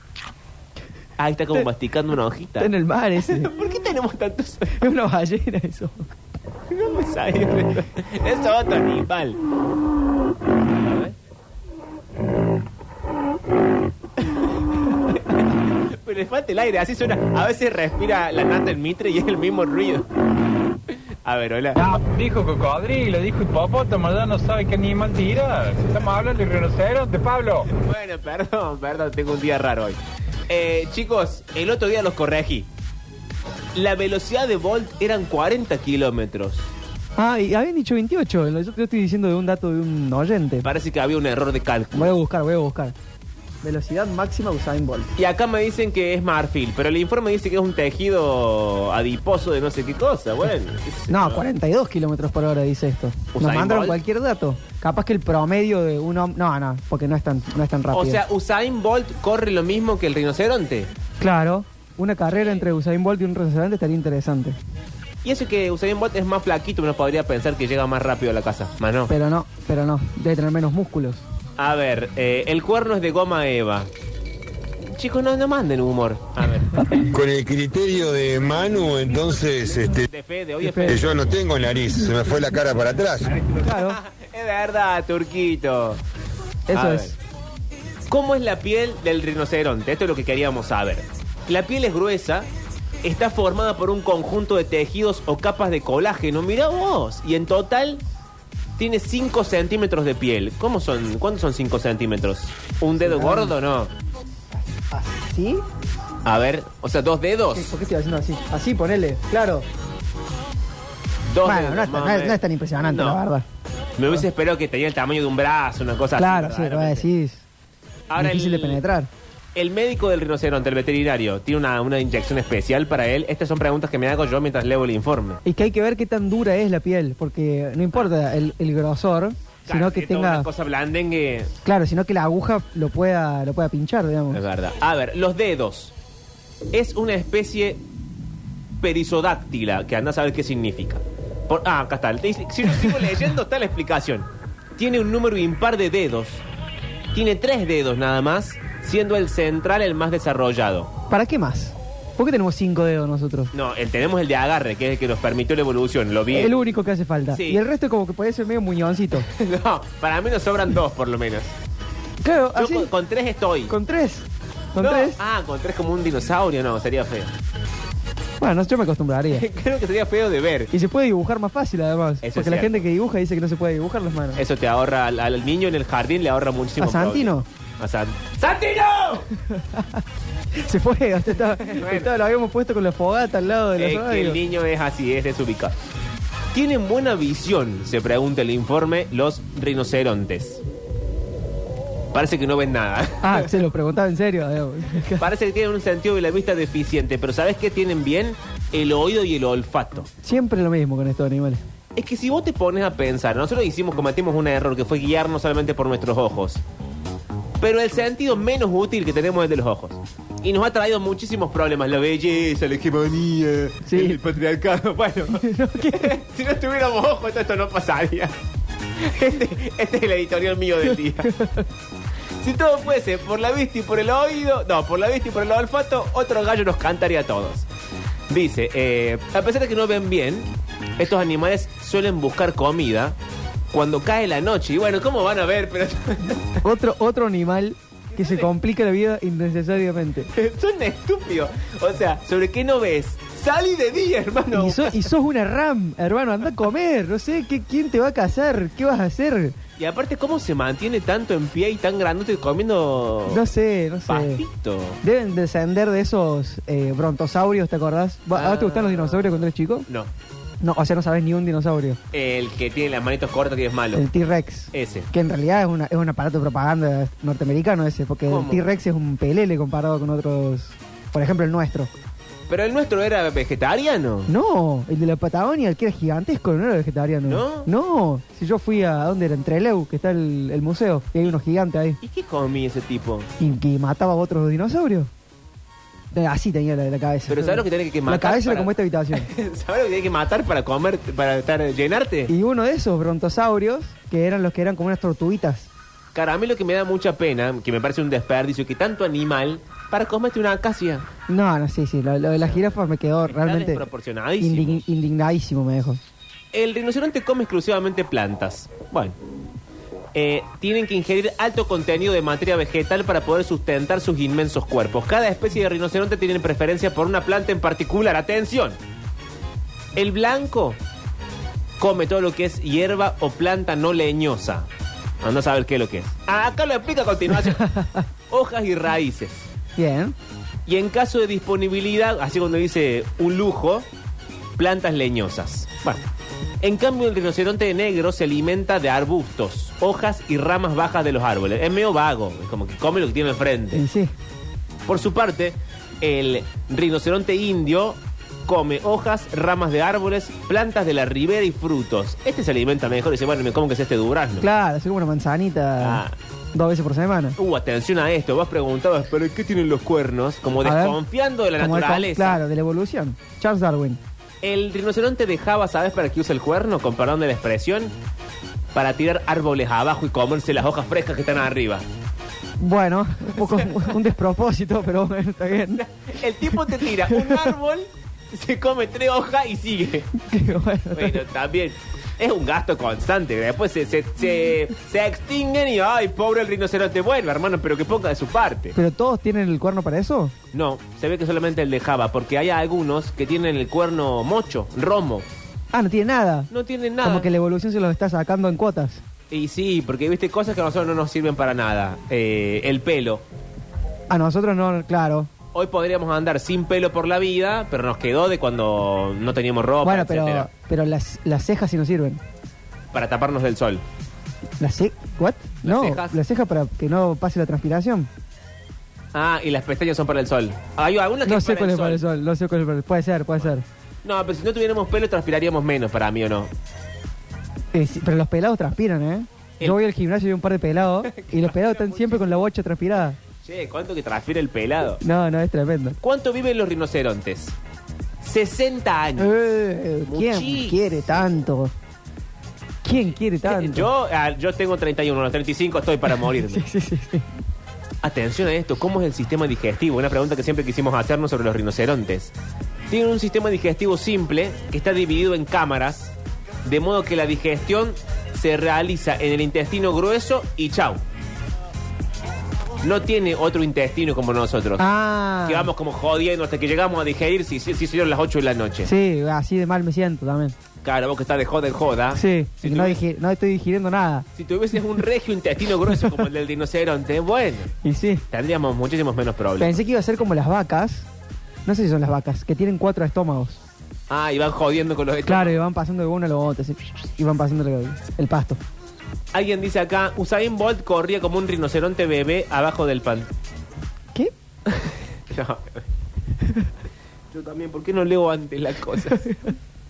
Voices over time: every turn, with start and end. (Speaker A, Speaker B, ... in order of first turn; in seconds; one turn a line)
Speaker A: 1.2-4.9
Speaker B: 2.6-3.5
Speaker B: 4.8-6.1
Speaker A: 6.7-9.4
Speaker A: 10.8-11.1
Speaker A: 15.1-20.1
Speaker A: 21.2-21.8
Speaker C: 21.8-27.7
Speaker A: 27.7-32.7
Speaker A: 33.7-36.7
Speaker B: 37.2-40.6
Speaker A: 40.6-42.1
Speaker B: 41.9-42.9
Speaker B: 43.6-45.1
Speaker A: 45.2-51.5
Speaker B: 51.1-58.2
Speaker A: 53.3-54.0
Speaker A: 57.9-60.9
Speaker B: 61.2-64.6
Speaker A: 62.3-62.6
Speaker A: 65.2-69.1
Speaker B: 69.1-71.2
Speaker A: 71.6-73.9
Speaker A: 74.8-76.8
Speaker D: 77.1-80.1
Speaker A: 80.1-81.3
Speaker B: 80.6-81.0
Speaker D: 80.8-83.3
Speaker A: 83.3-86.0
Speaker B: 83.6-84.0
Speaker B: 86.7-87.1
Speaker A: 86.7-87.1
Speaker A: 88.1-92.5
Speaker A: 93.0-98.0
Speaker A: 98.8-103.9
Speaker B: 103.0-103.5
Speaker B: 104.5-105.6
Speaker A: 106.2-107.7
Speaker B: 107.5-109.7
Speaker A: 111.3-113.2
Speaker B: 111.4-113.4
Speaker A: 114.0-117.1
Speaker B: 116.2-117.4
Speaker A: 118.1-118.8
Speaker B: 118.2-119.1
Speaker A: 119.5-125.4
Speaker B: 125.4-130.5
Speaker A: 129.7-131.5
Speaker B: 131.6-134.4
Speaker A: 134.3-135.9
Speaker A: 136.7-137.8
Speaker A: 138.8-146.4
Speaker A: 147.1-150.9
Speaker B: 151.1-153.5
Speaker A: 153.5-156.6
Speaker B: 156.3-159.3
Speaker A: 157.3-157.6
Speaker A: 159.3-161.5
Speaker B: 162.2-162.9
Speaker A: 162.5-163.7
Speaker B: 163.7-165.2
Speaker A: 164.8-167.3
Speaker B: 168.4-169.4
Speaker A: 169.3-170.7
Speaker B: 170.7-174.4
Speaker A: 172.2-172.9
Speaker A: 174.3-179.3
Speaker B: 176.8-177.4
Speaker B: 179.4-180.0
Speaker B: 180.6-184.4
Speaker A: 181.6-182.1
Speaker A: 183.8-185.8
Speaker A: 186.5-190.6
Speaker A: 192.1-193.5
Speaker B: 193.2-195.3
Speaker A: 195.2-200.1
Speaker B: 200.2-201.6
Speaker A: 201.9-206.6
Speaker A: 207.6-218.3
Speaker B: 213.8-214.2
Speaker B: 215.3-216.2
Speaker A: 219.0-221.3
Speaker B: 220.9-221.7
Speaker A: 222.4-227.7
Speaker A: 228.3-233.2
Speaker A: 233.7-236.6
Speaker B: 236.6-240.3
Speaker A: 238.1-238.5
Speaker A: 240.3-245.1
Speaker B: 244.5-249.5
Speaker A: 249.8-253.4
Speaker B: 253.3-254.4
Speaker A: 254.1-255.0
Speaker B: 255.0-259.9
Speaker A: 258.3-260.1
Speaker B: 260.6-262.0
Speaker A: 262.1-264.1
Speaker B: 263.9-271.9
Speaker A: 264.7-265.1
Speaker A: 268.2-268.7
Speaker A: 272.5-274.3
Speaker B: 274.3-282.0
Speaker A: 277.2-277.7
Speaker A: 282.0-283.3
Speaker B: 283.4-285.1
Speaker B: 286.1-289.3
Speaker A: 287.3-292.3
Speaker B: 292.3-295.7
Speaker A: 296.1-301.1
Speaker B: 301.3-303.9
Speaker A: 302.4-304.9
Speaker B: 304.4-306.0
Speaker A: 306.5-309.1
Speaker A: 310.1-318.8
Speaker A: 319.9-320.8
Speaker A: 321.8-324.7
Speaker A: 325.2-327.6
Speaker B: 327.4-328.1
Speaker A: 328.3-329.5
Speaker B: 329.8-330.1
Speaker A: 330.7-333.9
Speaker A: 334.6-336.0
Speaker A: 336.6-343.8
Speaker B: 343.7-344.1
Speaker A: 344.9-354.5
Speaker B: 354.4-356.0
Speaker A: 355.8-356.1
Speaker B: 356.5-357.4
Speaker A: 357.4-362.4
Speaker B: 360.6-361.0
Speaker B: 361.5-364.0
Speaker A: 364.4-367.9
Speaker A: 368.7-371.8
Speaker B: 372.6-375.8
Speaker A: 373.3-374.0
Speaker A: 375.7-380.1
Speaker B: 376.5-377.5
Speaker B: 380.2-381.2
Speaker A: 380.9-388.8
Speaker B: 388.7-390.3
Speaker A: 390.5-395.3
Speaker B: 395.7-396.5
Speaker A: 396.5-397.3
Speaker B: 397.0-399.0
Speaker A: 399.3-403.2
Speaker B: 404.1-405.3
Speaker A: 405.5-410.5
Speaker B: 409.8-412.2
Speaker A: 412.9-413.8
Speaker B: 414.6-418.1
Speaker A: 415.6-416.2
Speaker A: 419.1-422.0
Speaker B: 421.2-423.6
Speaker A: 424.0-426.5
Speaker B: 427.7-433.2
Speaker A: 431.0-432.5
Speaker A: 433.4-435.0
Speaker B: 435.0-436.0
Speaker A: 436.0-437.5
Speaker A: 438.2-439.3
Speaker B: 439.2-441.7
Speaker A: 440.1-440.9
Speaker B: 442.8-443.9
Speaker A: 443.4-446.6
Speaker B: 446.2-447.3
Speaker A: 448.0-452.3
Speaker A: 452.9-461.0
Speaker A: 462.8-464.9
Speaker B: 464.8-465.7
Speaker A: 465.4-468.9
Speaker B: 468.8-470.5
Speaker A: 470.8-473.0
Speaker B: 472.1-474.3
Speaker A: 474.4-477.7
Speaker B: 477.8-478.2
Speaker A: 478.3-479.8
Speaker B: 479.6-481.1
Speaker B: 481.6-483.6
Speaker A: 484.1-485.6
Speaker B: 485.2-488.6
Speaker A: 489.3-493.3
Speaker A: 494.7-495.8
Speaker A: 497.3-499.3
Speaker B: 499.1-499.5